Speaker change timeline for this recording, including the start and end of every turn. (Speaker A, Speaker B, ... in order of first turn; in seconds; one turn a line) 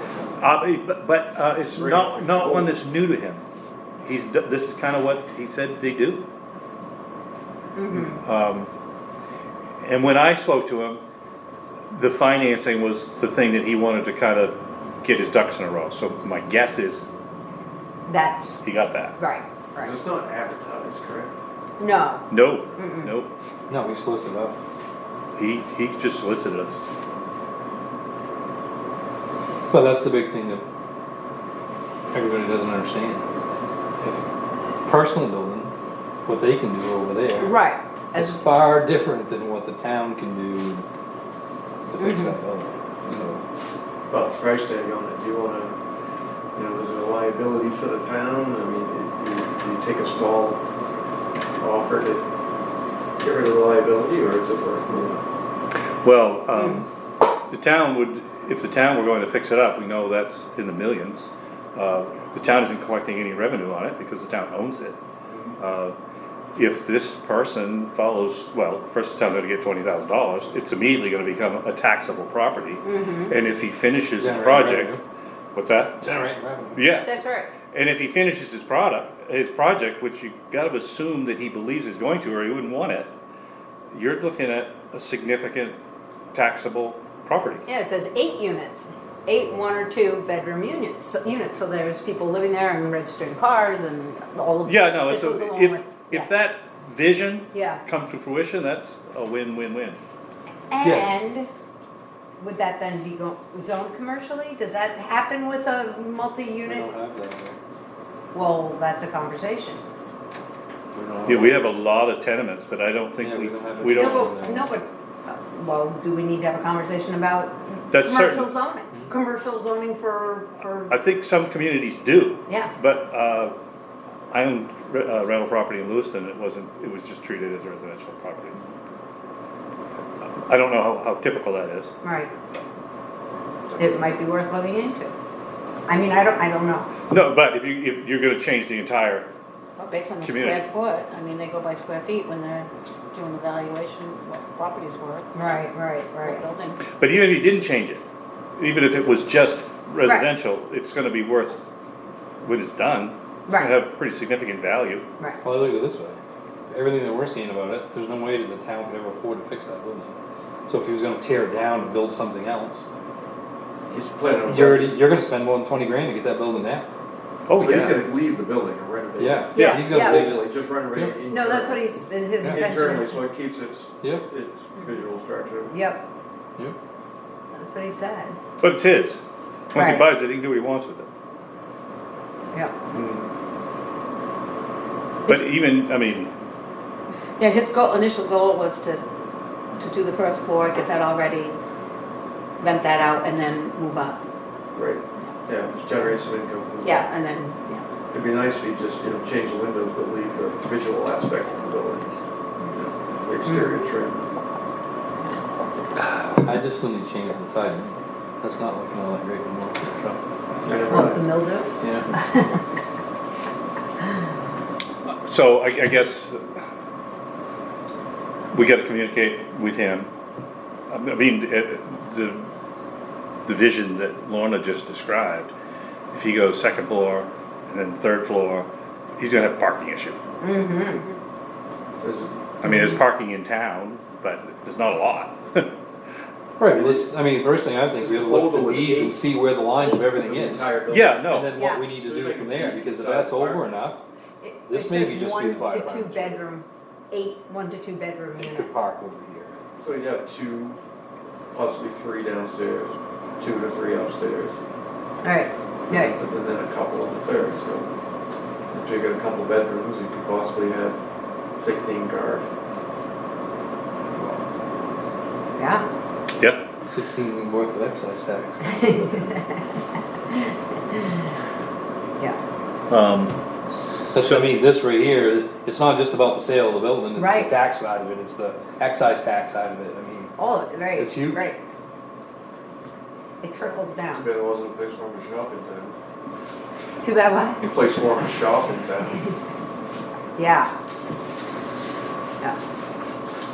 Speaker A: 0.4-3.4
Speaker B: 1.6-2.7
Speaker A: 4.0-6.2
Speaker C: 7.8-8.2
Speaker A: 7.9-8.7
Speaker A: 9.8-11.0
Speaker A: 11.9-17.1
Speaker C: 18.1-18.6
Speaker A: 18.6-19.1
Speaker C: 19.2-19.9
Speaker B: 19.8-21.3
Speaker C: 21.8-22.3
Speaker A: 22.3-23.3
Speaker C: 22.8-23.1
Speaker D: 23.7-24.6
Speaker A: 25.4-26.8
Speaker D: 29.7-30.6
Speaker D: 32.1-33.2
Speaker D: 34.8-35.7
Speaker D: 36.3-37.5
Speaker C: 37.4-38.4
Speaker D: 38.1-40.9
Speaker D: 41.9-43.4
Speaker C: 42.0-42.3
Speaker B: 44.1-45.8
Speaker B: 46.5-50.6
Speaker B: 51.6-52.2
Speaker B: 53.2-55.2
Speaker A: 56.0-56.9
Speaker A: 57.5-65.0
Speaker B: 65.3-65.6
Speaker A: 65.6-66.0
Speaker A: 66.6-75.0
Speaker C: 72.8-73.3
Speaker D: 74.2-75.0
Speaker A: 75.5-76.1
Speaker D: 76.0-76.9
Speaker A: 76.8-83.1
Speaker C: 77.0-77.5
Speaker A: 83.9-85.8
Speaker A: 86.3-87.7
Speaker C: 87.7-96.3
Speaker A: 94.7-100.0
Speaker C: 97.5-97.8
Speaker C: 100.7-101.5
Speaker D: 100.8-101.1
Speaker C: 102.4-106.9
Speaker D: 106.6-107.6
Speaker C: 108.3-109.8
Speaker B: 111.0-111.3
Speaker D: 111.0-111.6
Speaker A: 111.3-114.3
Speaker D: 113.2-114.7
Speaker C: 114.0-120.9
Speaker A: 117.9-118.5
Speaker A: 120.9-123.5
Speaker A: 124.3-128.6
Speaker A: 130.2-131.9
Speaker C: 132.0-132.3
Speaker C: 133.8-135.1
Speaker C: 135.9-136.9
Speaker A: 137.1-139.3
Speaker E: 139.8-145.6
Speaker A: 140.2-140.7
Speaker C: 145.3-146.4
Speaker E: 146.2-146.8
Speaker A: 146.9-148.0
Speaker A: 148.6-151.6
Speaker A: 152.4-155.1
Speaker C: 153.5-153.8
Speaker D: 155.4-162.8
Speaker B: 163.9-165.0
Speaker D: 164.5-166.9
Speaker A: 167.5-168.0
Speaker B: 167.6-175.8
Speaker D: 169.2-171.2
Speaker C: 169.6-170.4
Speaker A: 169.6-169.8
Speaker C: 171.3-173.2
Speaker D: 174.0-174.3
Speaker C: 175.7-176.0
Speaker C: 177.5-178.4
Speaker A: 178.6-179.2
Speaker A: 179.7-181.1
Speaker C: 179.7-180.1
Speaker B: 182.9-183.3
Speaker A: 185.3-186.3
Speaker E: 187.4-189.1
Speaker E: 189.8-191.6
Speaker E: 192.6-194.2
Speaker B: 194.8-197.1
Speaker E: 196.8-197.9
Speaker B: 198.1-202.2
Speaker B: 202.7-204.3
Speaker C: 203.5-203.8
Speaker D: 206.3-210.2
Speaker B: 210.6-211.2
Speaker C: 210.9-212.6
Speaker D: 211.8-212.1
Speaker A: 215.1-216.6
Speaker A: 218.5-220.1
Speaker A: 220.9-222.4
Speaker A: 223.5-225.5
Speaker A: 226.1-228.7
Speaker A: 229.2-230.2
Speaker C: 230.4-231.1
Speaker B: 232.0-232.4
Speaker A: 232.6-235.7
Speaker C: 232.7-232.9
Speaker D: 236.6-244.0
Speaker B: 236.6-237.1
Speaker B: 237.9-239.2
Speaker B: 239.8-241.2
Speaker A: 240.9-241.6
Speaker C: 241.6-241.8
Speaker B: 241.9-243.9
Speaker C: 244.4-248.8
Speaker D: 244.7-246.4
Speaker D: 248.4-249.6
Speaker B: 249.8-250.8
Speaker B: 251.5-254.6
Speaker C: 255.2-256.1
Speaker B: 255.9-257.9
Speaker B: 258.7-261.0
Speaker B: 261.6-262.5
Speaker C: 265.6-265.9
Speaker D: 266.9-269.4
Speaker C: 268.7-269.7
Speaker C: 270.3-271.2
Speaker A: 272.9-273.4
Speaker A: 273.9-274.5
Speaker D: 274.1-280.4
Speaker C: 277.2-277.5
Speaker C: 280.4-281.6
Speaker D: 280.9-281.5
Speaker C: 283.4-284.3
Speaker B: 284.1-286.0
Speaker C: 287.0-287.6
Speaker B: 287.6-289.2
Speaker C: 290.4-290.7